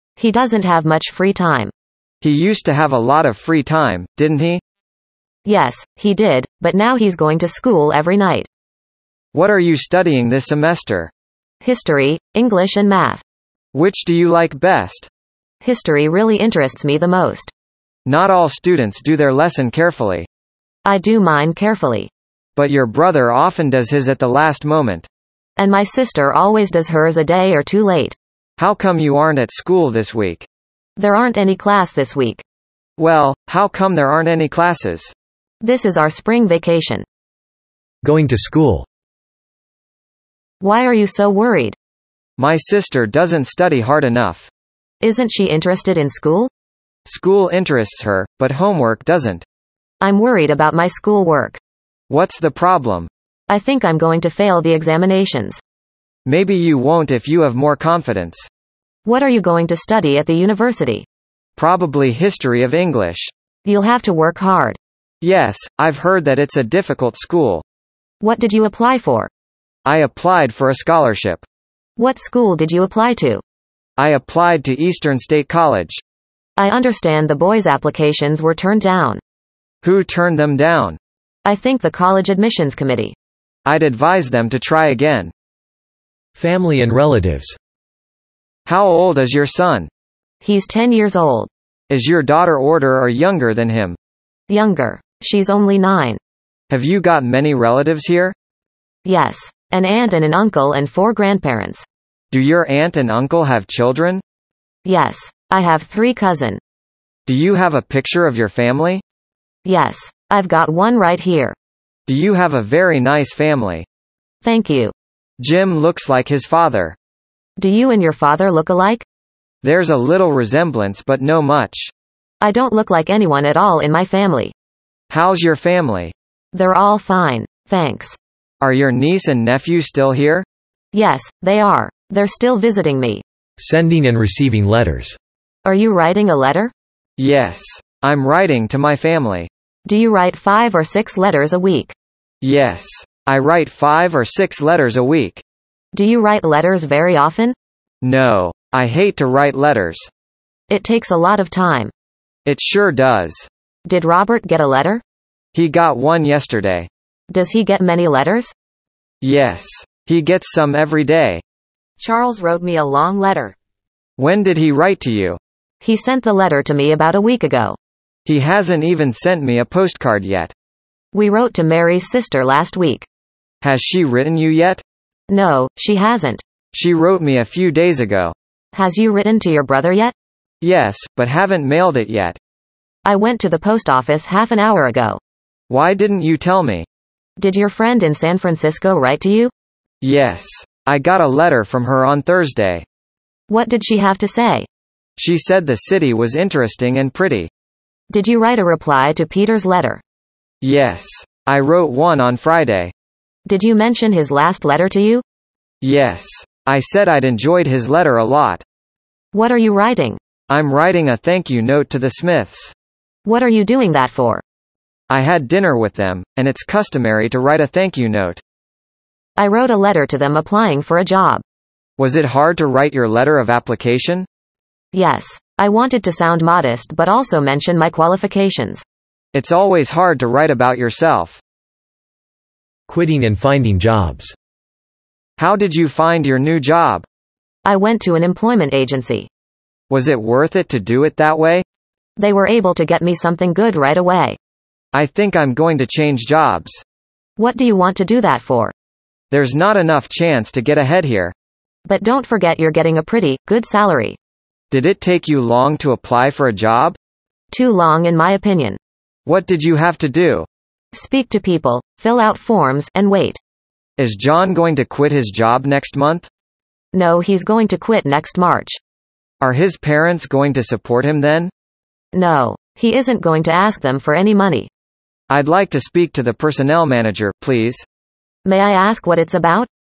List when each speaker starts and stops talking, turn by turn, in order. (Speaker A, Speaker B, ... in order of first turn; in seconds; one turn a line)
Speaker A: 0.2-1.7
Speaker B: 2.2-4.6
Speaker A: 5.5-8.5
Speaker B: 9.3-11.1
Speaker A: 11.6-13.2
Speaker B: 13.7-15.1
Speaker A: 15.6-17.5
Speaker B: 18.1-20.3
Speaker A: 20.8-22.1
Speaker B: 22.6-25.1
Speaker A: 25.6-28.1
Speaker B: 28.6-30.5
Speaker A: 31.0-32.4
Speaker B: 33.0-35.1
Speaker A: 35.6-37.0
Speaker C: 38.0-38.9
Speaker A: 40.6-41.8
Speaker B: 42.4-44.5
Speaker A: 45.0-46.5
Speaker B: 47.0-49.4
Speaker A: 50.0-51.6
Speaker B: 52.1-53.1
Speaker A: 53.5-55.6
Speaker B: 56.2-58.5
Speaker A: 59.0-61.0
Speaker B: 61.5-63.3
Speaker A: 63.6-64.8
Speaker B: 65.2-67.6
Speaker A: 68.2-69.3
Speaker B: 69.8-71.4
Speaker A: 72.0-73.4
Speaker B: 74.0-76.0
Speaker A: 76.6-79.2
Speaker B: 79.8-81.0
Speaker A: 81.4-83.1
Speaker B: 83.7-85.3
Speaker C: 86.3-87.6
Speaker B: 88.7-89.9
Speaker A: 90.4-91.5
Speaker B: 91.9-94.0
Speaker A: 94.5-96.2
Speaker B: 96.7-98.3
Speaker A: 99.0-101.8
Speaker B: 102.3-104.2
Speaker A: 104.8-106.6
Speaker B: 107.2-109.0
Speaker A: 109.6-111.5
Speaker B: 112.1-113.8
Speaker A: 114.4-114.9
Speaker B: 115.4-117.0
Speaker A: 117.6-119.0
Speaker B: 119.6-121.9
Speaker A: 122.4-124.5
Speaker B: 125.1-126.1
Speaker A: 126.5-128.2
Speaker B: 128.6-130.4
Speaker A: 130.9-133.2
Speaker C: 133.6-135.2
Speaker A: 135.6-136.7
Speaker B: 137.2-139.5
Speaker A: 139.8-141.9
Speaker B: 142.4-145.4
Speaker A: 145.9-147.5
Speaker B: 148.0-150.1
Speaker A: 150.7-151.9
Speaker B: 152.4-153.5
Speaker A: 153.8-155.0
Speaker B: 155.5-156.9
Speaker A: 157.3-158.5
Speaker B: 159.2-161.4
Speaker A: 162.0-163.5
Speaker B: 164.2-165.4
Speaker A: 165.8-167.8
Speaker B: 168.2-170.5
Speaker A: 171.1-173.1
Speaker B: 173.6-174.8
Speaker A: 175.3-176.4
Speaker B: 176.7-178.3
Speaker A: 178.7-180.1
Speaker B: 180.6-182.4
Speaker A: 183.0-185.2
Speaker B: 185.7-186.8
Speaker A: 187.4-189.5
Speaker B: 190.0-192.8
Speaker A: 193.5-194.7
Speaker B: 195.2-197.5
Speaker A: 198.1-200.0
Speaker B: 200.6-202.9
Speaker A: 203.4-205.2
Speaker B: 205.8-208.6
Speaker A: 209.3-210.2
Speaker B: 210.5-212.7
Speaker A: 213.2-214.4
Speaker B: 215.1-218.4
Speaker A: 219.4-221.4
Speaker B: 222.0-224.3
Speaker A: 224.9-228.8
Speaker B: 229.3-231.4
Speaker C: 232.9-234.3
Speaker B: 235.4-237.0
Speaker A: 237.6-239.3
Speaker B: 239.9-241.6
Speaker A: 242.2-244.4
Speaker B: 244.9-246.8
Speaker A: 247.4-248.7
Speaker B: 249.3-251.3
Speaker A: 251.8-254.2
Speaker B: 254.7-257.0
Speaker A: 257.5-258.8
Speaker B: 259.2-260.5
Speaker A: 260.9-263.4
Speaker B: 264.0-266.3
Speaker A: 266.9-268.8
Speaker B: 269.4-271.5
Speaker A: 272.1-274.7
Speaker B: 275.3-277.8
Speaker A: 278.4-279.7